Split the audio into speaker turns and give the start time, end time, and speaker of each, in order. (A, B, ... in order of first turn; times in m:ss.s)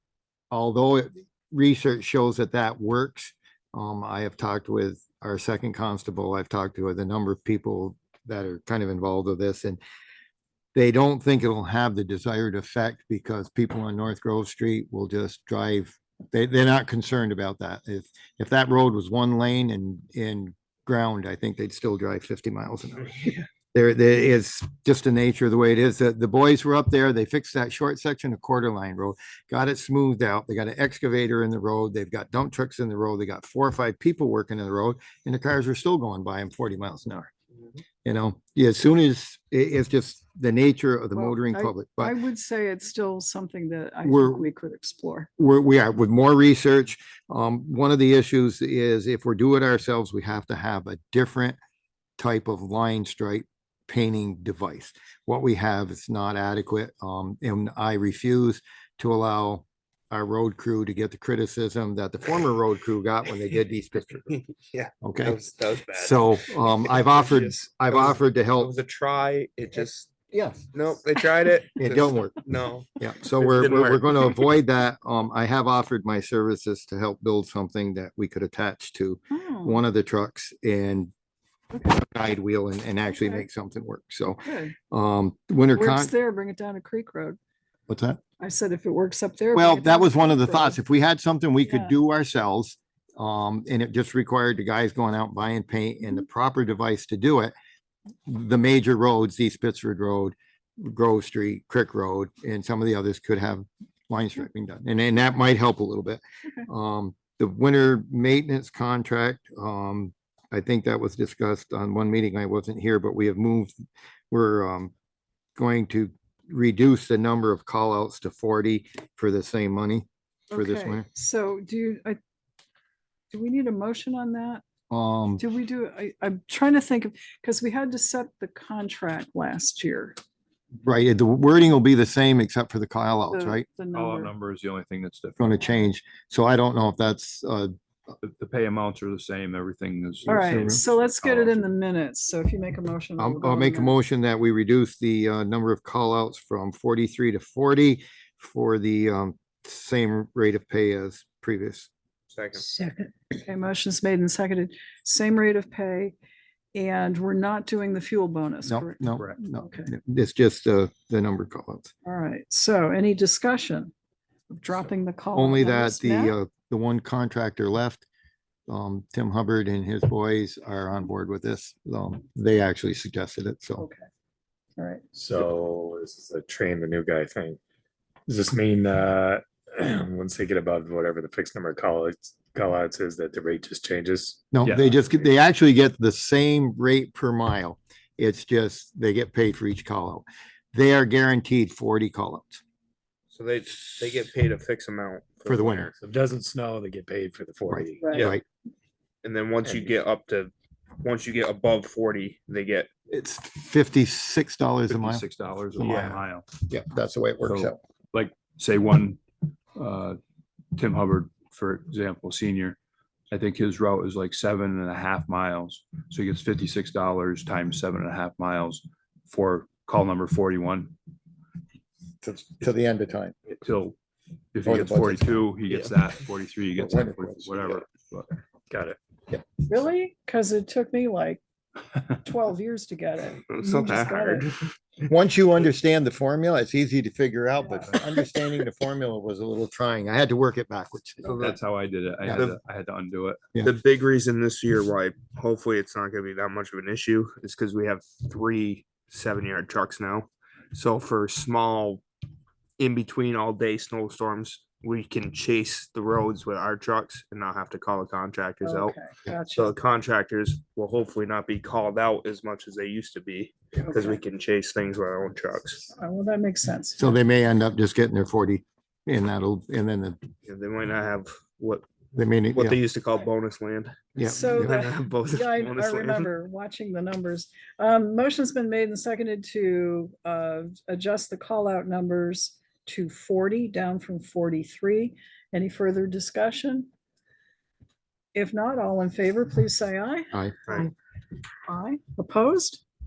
0:00.5-0:09.8 A
0:10.7-0:37.3 A
0:38.0-0:42.2 A
0:41.1-0:45.3 B
0:44.0-0:44.5 A
0:45.4-0:51.6 A
0:52.2-1:04.3 A
1:04.3-1:10.2 C
1:05.0-1:05.4 A
1:05.9-1:08.7 A
1:10.2-1:10.7 A
1:10.7-1:14.4 C
1:11.8-1:12.4 A
1:12.9-1:21.1 A
1:19.3-1:19.8 B
1:21.8-1:26.1 A
1:23.2-1:23.4 B
1:24.4-1:24.8 B
1:25.7-1:27.4 B
1:27.9-1:28.2 A
1:28.4-1:30.8 B
1:29.5-1:37.5 A
1:31.6-1:31.9 B
1:38.3-1:53.7 A
1:54.3-1:54.9 A
1:55.6-2:01.1 A
2:00.5-2:02.2 B
2:03.3-2:04.6 B
2:04.9-2:05.4 A
2:05.4-2:10.2 B
2:10.8-2:13.6 A
2:13.3-2:14.3 B
2:13.9-2:15.6 D
2:15.4-2:17.7 A
2:18.2-2:20.8 D
2:20.2-2:24.0 B
2:20.3-2:21.5 A
2:23.2-2:31.9 A
2:32.3-2:32.6 C
2:32.8-2:36.1 B
2:36.7-2:39.9 B
2:38.7-2:41.9 A
2:42.0-2:43.9 B
2:44.5-2:46.3 B
2:45.3-2:48.1 A
2:48.7-2:53.9 A
2:53.8-2:54.0 B
2:54.8-2:55.0 B
2:55.1-2:57.6 E
2:58.3-3:04.5 E
3:04.5-3:12.6 A
3:13.3-3:15.9 C
3:15.4-3:15.9 A
3:16.0-3:18.2 E
3:17.7-3:18.4 A
3:18.0-3:18.3 B
3:19.2-3:22.9 C
3:19.6-3:19.9 E
3:23.1-3:25.2 A
3:24.9-3:26.5 D
3:25.8-3:27.8 A
3:25.8-3:26.1 C
3:27.4-3:29.2 D
3:29.7-3:30.2 D
3:30.8-3:32.8 D
3:33.3-3:40.9 D
3:42.2-3:43.3 A
3:43.5-3:44.0 D
3:44.5-3:49.0 D
3:44.6-3:45.3 A
3:46.8-3:47.8 A
3:49.6-3:51.4 B
3:52.2-3:54.5 B
3:53.4-3:54.7 C
3:55.0-4:01.3 A
4:01.2-4:01.6 C
4:01.4-4:03.5 D
4:02.2-4:02.6 C
4:03.6-4:12.0 C
4:12.8-4:18.9 C
4:18.6-4:19.7 B
4:19.5-4:25.9 C
4:23.9-4:24.2 B
4:25.9-4:27.2 B
4:27.0-4:30.2 A
4:30.4-4:31.8 C
4:32.1-4:32.8 A
4:32.5-4:36.3 C
4:34.2-4:34.9 A
4:34.2-4:46.9 B
4:48.3-4:50.9 B
4:51.7-4:52.8 B